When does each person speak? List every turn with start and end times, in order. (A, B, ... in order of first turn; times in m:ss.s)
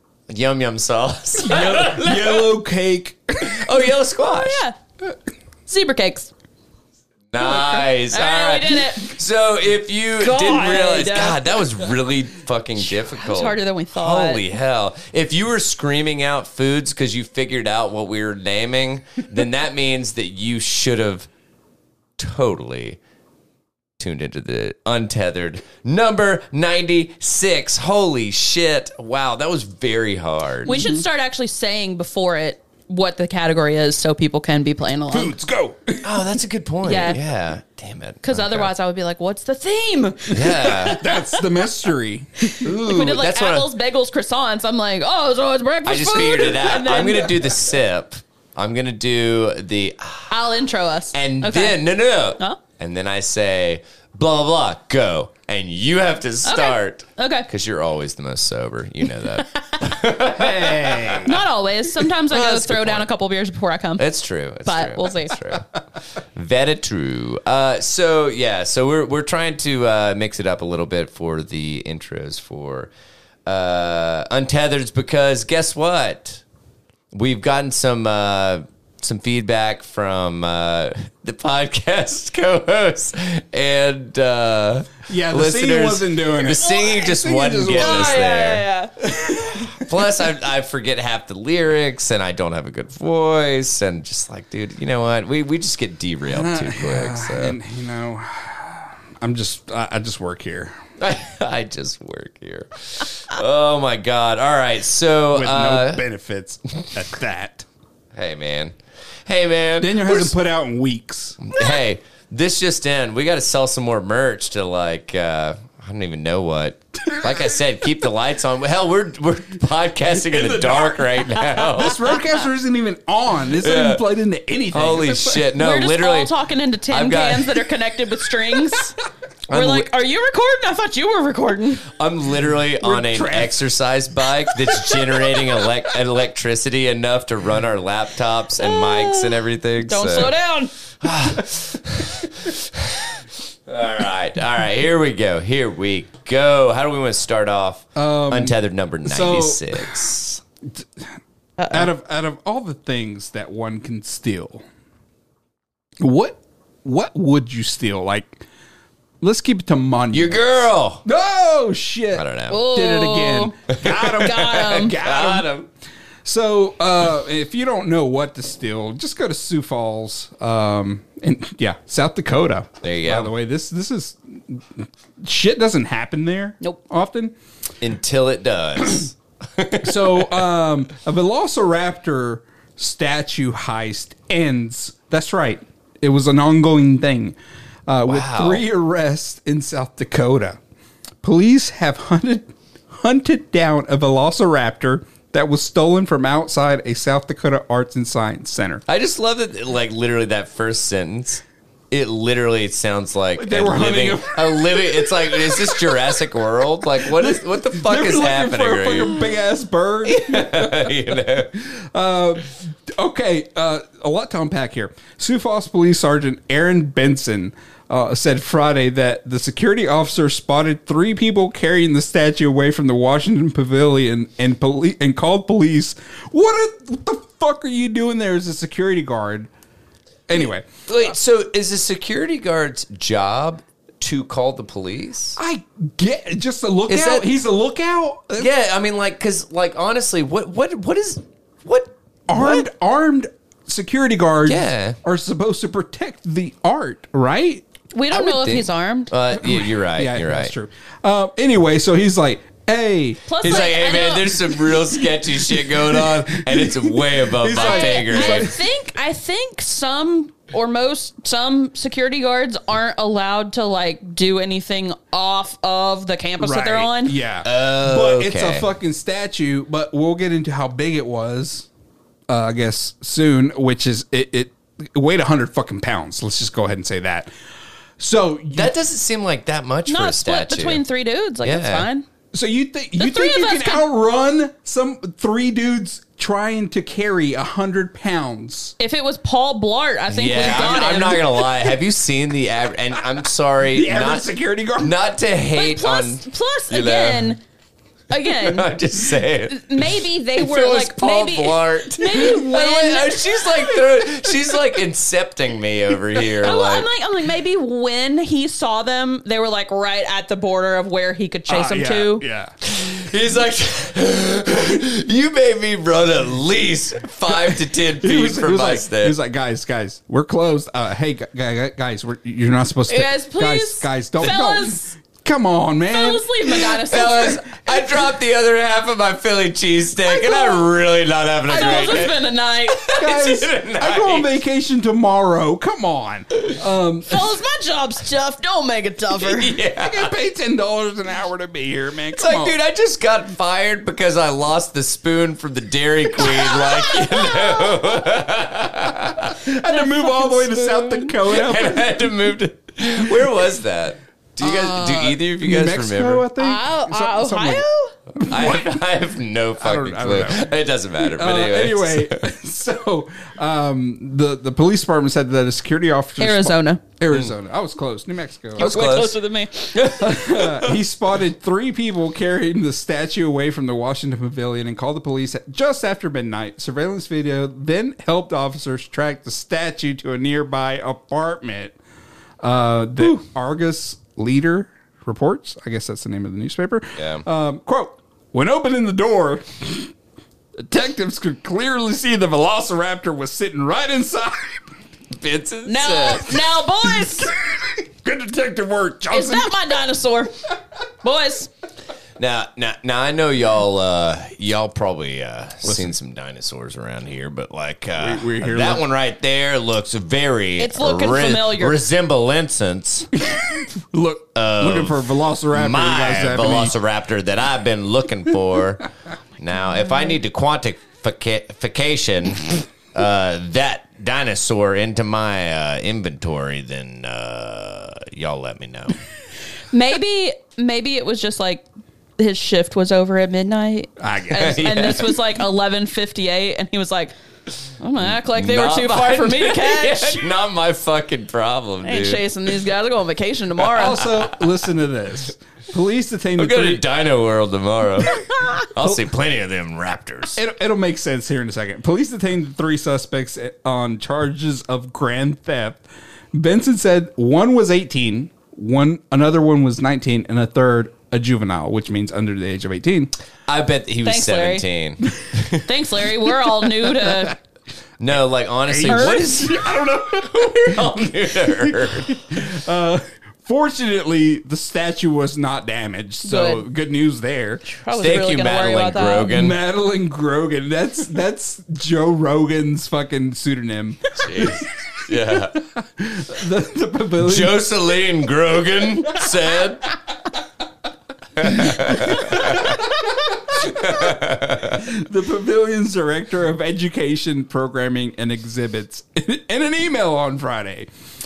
0:00.3-0:02.5 A
0:01.5-0:03.7 B
0:03.4-0:04.6 A
0:04.3-0:04.8 C
0:05.7-0:06.3 C
0:07.3-0:21.3 A
0:07.4-0:07.8 B
0:07.4-0:09.2 C
0:10.2-0:11.4 C
0:12.9-0:14.4 C
0:22.2-0:23.0 A
0:24.0-0:30.7 A
0:30.6-0:35.4 C
0:30.6-0:31.0 B
0:35.1-0:36.2 B
0:36.0-0:38.7 A
0:36.8-0:37.2 C
0:38.2-0:41.4 C
0:40.3-0:41.1 A
0:40.6-0:42.5 B
0:42.4-0:47.6 C
0:42.6-0:43.7 A
0:45.8-0:50.4 A
0:50.3-0:51.8 C
0:51.1-1:01.3 A
0:56.4-0:57.5 C
1:00.3-1:01.4 B
1:01.2-1:04.1 C
1:02.3-1:03.1 A
1:04.0-1:05.7 A
1:04.6-1:05.4 C
1:06.4-1:12.9 A
1:13.5-1:16.4 A
1:17.1-1:28.6 A
1:25.1-1:28.3 B
1:27.7-1:29.1 C
1:29.0-1:29.9 B
1:29.8-1:37.6 A
1:36.3-1:40.8 B
1:41.0-1:46.0 A
1:45.3-1:47.7 B
1:48.1-1:48.7 A
1:49.3-1:50.4 A
1:49.8-1:51.4 B
1:51.4-2:02.2 A
2:00.1-2:05.5 B
2:03.6-2:04.0 A
2:04.7-2:06.3 A
2:05.6-2:09.0 C
2:06.9-2:07.7 A
2:09.5-2:09.9 A
2:09.5-2:11.9 C
2:11.9-2:20.4 A
2:12.8-2:13.7 B
2:14.7-2:15.4 B
2:18.6-2:20.7 C
2:21.0-2:30.4 A
2:28.0-2:30.0 B
2:30.7-2:31.2 B
2:31.6-2:31.9 C
2:31.7-2:34.6 B
2:36.0-2:38.5 B
2:39.2-2:40.4 B
2:40.1-2:41.0 A
2:41.0-2:45.6 B
2:42.1-2:42.6 A
2:42.5-2:45.0 C
2:43.7-2:45.6 A
2:46.2-2:57.4 B
2:52.8-2:53.3 A
2:57.8-3:00.3 A
2:59.8-3:07.4 B
3:07.9-3:10.6 B
3:08.1-3:08.7 A
3:11.2-3:18.8 B
3:18.9-3:29.2 A
3:23.4-3:26.0 B
3:27.0-3:49.5 B
3:30.1-3:31.6 A
3:50.3-3:51.1 B
3:50.9-3:55.4 A
3:55.4-3:58.5 B
3:56.9-3:57.3 A
3:58.4-4:01.9 A
4:02.3-4:07.7 B
4:04.5-4:05.0 A
4:07.9-4:09.1 C
4:08.1-4:10.5 A
4:09.4-4:13.4 B
4:13.3-4:14.7 C
4:13.4-4:18.6 A
4:15.2-4:18.6 B
4:17.6-4:27.2 C
4:26.4-4:31.7 B
4:27.4-4:28.7 A
4:32.3-4:37.3 B
4:38.0-4:38.7 B
4:38.6-4:40.8 A
4:39.9-4:42.1 C
4:41.4-4:41.9 A
4:42.3-4:48.8 B
4:43.0-4:43.8 C
4:48.8-4:51.6 C
4:50.1-4:57.4 A
4:53.7-4:55.0 B
4:55.5-4:57.4 C
4:58.1-4:58.7 C
4:58.1-5:06.9 A
4:59.5-5:03.8 C
5:06.2-5:12.3 C
5:11.5-5:12.5 B
5:12.6-5:19.2 A
5:18.0-5:26.6 B
5:22.9-5:24.9 C
5:25.9-5:27.8 C
5:26.5-5:34.4 A
5:30.0-5:30.7 C
5:31.5-5:32.1 B
5:31.5-5:33.1 C
5:32.9-5:37.3 B
5:37.1-5:39.6 C
5:39.2-5:40.1 A
5:39.8-5:42.6 B
5:42.2-5:49.4 A
5:46.2-5:48.0 C
5:49.3-5:52.3 B
5:49.7-5:50.9 C
5:50.9-5:56.3 A
5:54.4-5:55.2 C
5:55.4-5:58.8 B
5:56.4-5:57.9 C
5:58.2-6:02.3 A
5:59.6-6:00.5 B
6:01.1-6:09.0 B
6:06.2-6:06.8 C
6:08.6-6:09.2 A
6:08.6-6:09.9 C
6:09.7-6:10.8 A
6:09.9-6:21.8 B
6:22.4-6:29.9 B
6:27.0-6:27.2 A
6:30.6-6:34.7 B
6:35.1-6:36.4 A
6:35.7-6:37.3 C
6:36.8-6:39.5 B
6:39.1-6:40.4 C
6:41.0-6:41.5 C
6:42.2-6:53.1 A
6:45.6-6:45.9 B
6:48.0-6:48.9 B
6:50.6-6:51.8 C
6:53.2-6:56.8 B
6:54.4-7:09.0 A
7:09.7-7:11.7 C
7:12.2-7:17.1 C
7:14.0-7:14.9 B
7:14.3-7:15.2 A
7:17.8-7:20.3 C
7:18.0-7:22.3 A
7:21.8-7:24.1 C
7:23.7-7:26.8 B
7:23.8-7:24.5 A
7:26.4-7:30.4 A
7:30.4-7:43.1 B
7:43.5-7:45.7 A
7:44.0-7:44.7 C
7:45.6-7:47.4 C
7:48.0-7:52.2 A
7:48.7-7:57.7 B
7:56.2-7:56.7 C
7:57.6-7:59.3 C
7:58.0-7:59.6 A
7:59.3-8:04.5 B
8:04.2-8:05.6 A
8:05.4-8:07.6 B
8:07.2-8:09.9 A
8:11.4-8:12.8 A
8:11.4-8:20.9 B
8:13.6-8:14.8 A